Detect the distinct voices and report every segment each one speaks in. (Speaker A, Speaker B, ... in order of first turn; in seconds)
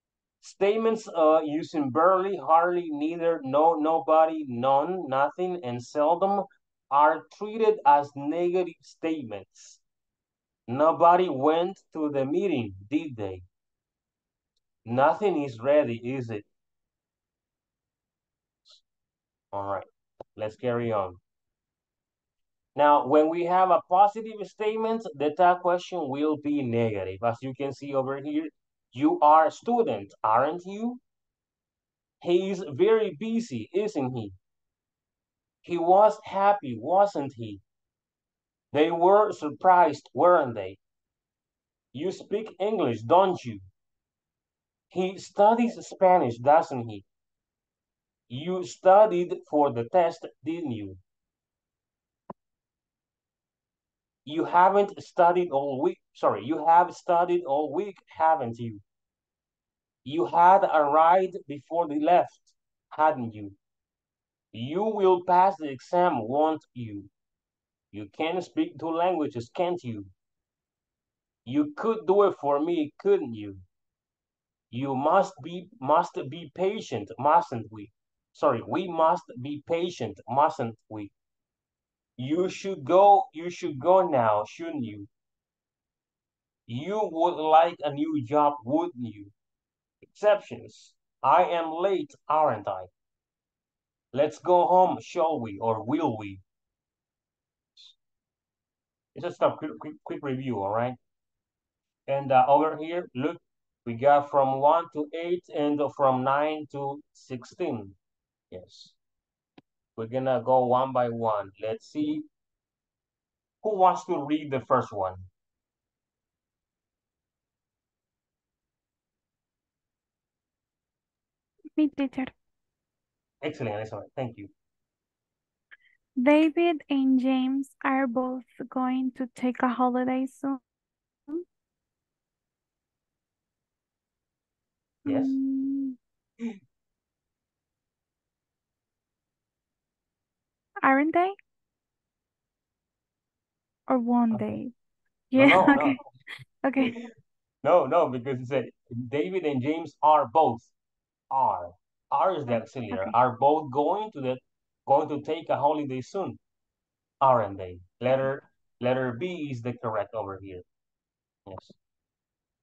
Speaker A: 0.4-9.8, 10.7-13.5, 14.8-16.5, 19.5-19.9, 20.4-21.2, 22.8-31.0, 32.2-34.4, 35.6-37.6, 38.7-40.8, 41.9-43.6, 44.9-47.0, 48.3-51.0, 54.3-58.8, 60.0-63.6, 64.5-67.1, 67.9-70.1, 71.5-73.6, 74.7-81.1, 82.2-85.1, 86.7-89.3, 90.0-92.9, 94.1-96.4, 99.2-101.0, 102.1-108.0, 108.5-109.0, 110.0-112.3, 113.6-115.3, 123.4-124.5, 135.1-135.4, 144.3-144.6, 145.4-146.0, 147.6-150.7, 151.3-156.4, 157.2-160.7, 161.5-161.8
Speaker B: 121.8-122.3, 126.2-130.6, 135.1-136.0, 140.8-141.3, 143.9-144.7, 145.3-146.0, 146.6-146.9